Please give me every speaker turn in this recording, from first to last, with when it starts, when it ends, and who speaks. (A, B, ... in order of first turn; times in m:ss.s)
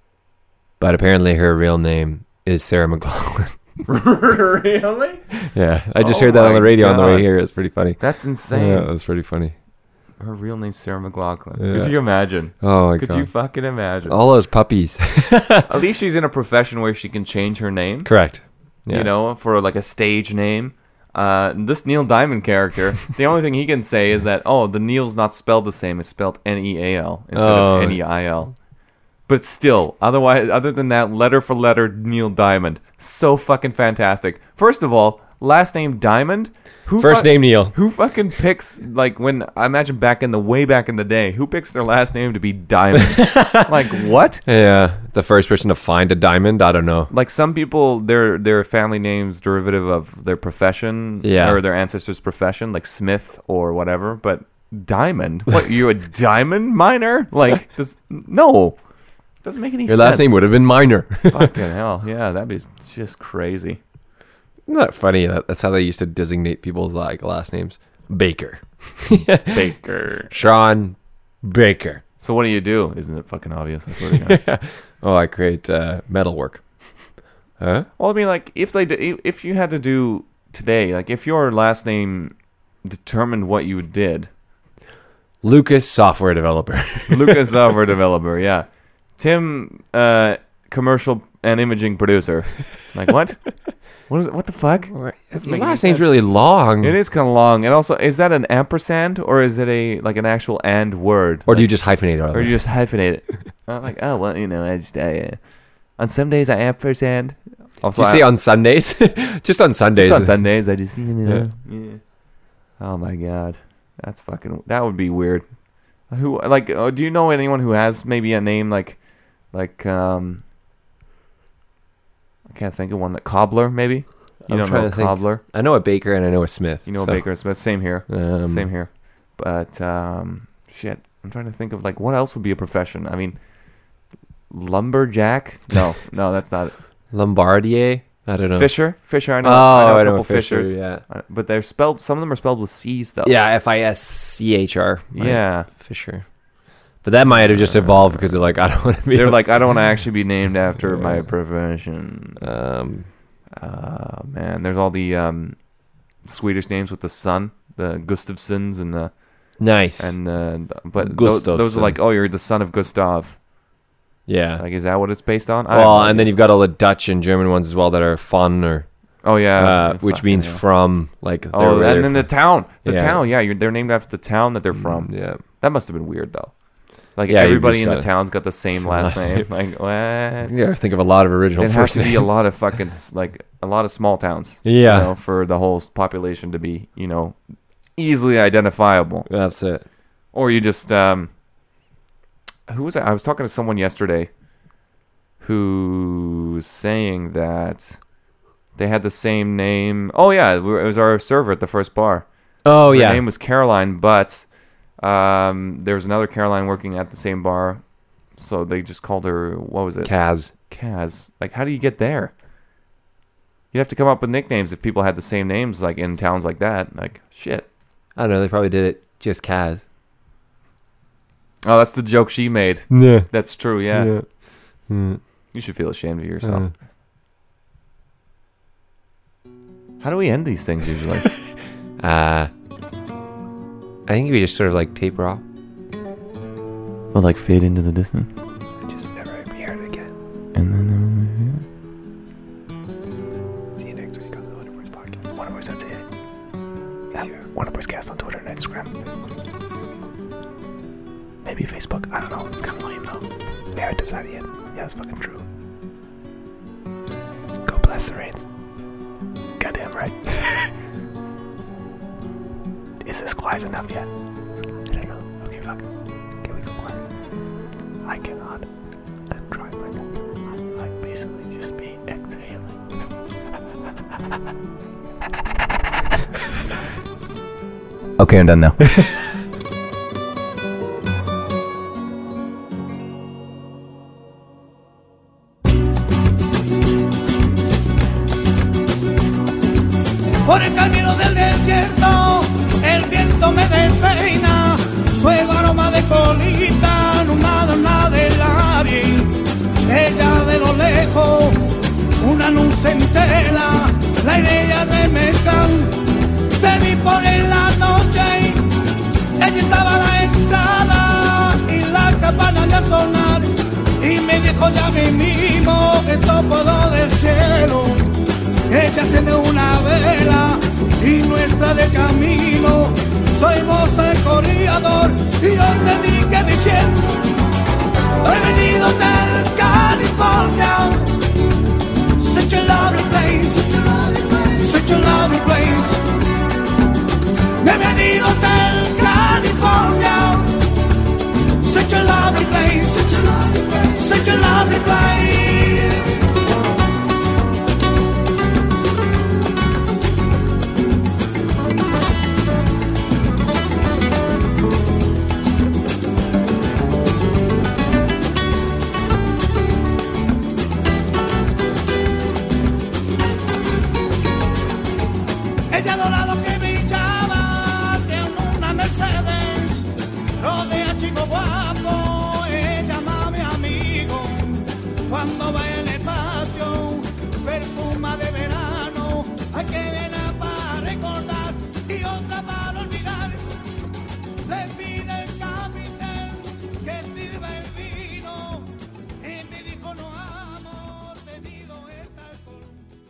0:00.8-0:03.6 A
0:03.8-0:05.3 B
0:05.4-0:09.5 A
0:06.0-0:07.3 B
0:08.0-0:08.9 B
0:10.2-0:14.2 B
0:11.6-0:12.0 A
0:12.5-0:13.3 A
0:14.1-0:15.7 A
0:15.7-0:18.1 B
0:18.0-0:19.1 A
0:18.9-0:28.5 B
0:27.3-0:28.0 A
0:29.3-0:44.4 B
0:37.0-0:37.7 A
0:43.0-0:43.7 A
0:44.4-0:47.1 A
0:47.1-0:58.8 B
0:51.2-0:51.6 A
0:59.4-1:00.4 B
0:59.8-1:01.5 A
1:01.3-1:03.8 B
1:04.6-1:09.7 A
1:09.5-1:10.3 B
1:10.3-1:12.0 A
1:12.2-1:14.4 B
1:14.0-1:16.6 A
1:17.6-1:17.9 A
1:18.0-1:24.3 B
1:25.4-1:27.5 A
1:27.1-1:28.6 B
1:29.2-1:33.5 B
1:34.1-1:36.0 B
1:34.9-1:37.0 A
1:36.8-1:41.7 B
1:41.5-1:42.6 A
1:42.3-1:45.4 B
1:46.0-1:48.3 B
1:47.9-1:50.4 A
1:50.0-1:52.0 B
1:52.8-1:55.4 B
1:56.1-1:59.0 B
1:59.5-2:00.4 B
2:02.5-2:05.4 B
2:04.4-2:07.2 A
2:06.8-2:13.4 B
2:08.1-2:08.7 A
2:14.5-2:16.8 B
2:17.1-2:18.7 A
2:18.5-2:23.4 B
2:19.4-2:21.0 A
2:23.2-2:26.2 A
2:25.1-2:25.7 B
2:27.0-2:29.6 A
2:27.4-2:28.3 B
2:29.1-2:32.4 B
2:30.8-2:31.3 A
2:32.4-2:33.1 A
2:33.6-2:35.6 B
2:36.2-2:39.1 B
2:39.6-2:40.2 A
2:40.0-2:43.4 B
2:41.0-2:42.0 A
2:44.3-2:44.6 A
2:44.6-2:46.3 B
2:45.7-2:48.9 A
2:49.2-2:50.6 B
2:49.6-2:53.2 A
2:51.5-2:56.5 B
2:54.7-2:55.4 A
2:57.2-3:00.6 B
2:57.2-2:58.1 A
2:58.7-2:59.5 A
3:00.4-3:02.3 A
3:01.6-3:07.4 B
3:04.6-3:05.1 A
3:08.0-3:09.3 B
3:09.3-3:09.8 A
3:10.3-3:11.3 B
3:12.7-3:14.3 B
3:15.4-3:18.0 B
3:18.8-3:22.2 B
3:22.6-3:23.2 A
3:22.8-3:24.5 B
3:25.0-3:27.8 B
3:28.4-3:30.1 B
3:30.0-3:30.5 A
3:30.7-3:32.3 B
3:33.7-3:37.7 B
3:38.2-3:39.8 A
3:41.6-3:44.1 B
3:42.9-3:43.3 A
3:43.9-3:44.2 A
3:44.9-3:45.2 A
3:45.5-3:46.7 B
3:46.4-3:46.7 A
3:50.0-3:51.3 B
3:52.0-3:52.5 A
3:54.1-3:55.4 A
3:57.1-3:58.3 B
3:58.8-4:00.1 A
4:00.5-4:01.6 B
4:03.7-4:06.0 A
4:07.1-4:08.9 A
4:11.4-4:13.2 A
4:13.7-4:15.4 A
4:17.6-4:18.4 A
4:19.6-4:20.3 A
4:23.0-4:24.1 A
4:24.9-4:25.7 A
4:26.4-4:26.8 A
4:28.1-4:28.4 A
4:31.4-4:32.4 B
4:38.2-4:38.9 B
4:50.4-5:06.0 C
5:06.6-5:08.7 C
5:09.4-5:27.2 C
5:28.2-5:31.2 C
5:32.2-5:36.0 C
5:37.6-5:40.7 C
5:41.6-5:46.2 C
6:05.7-6:23.5 C
6:24.4-6:32.9 C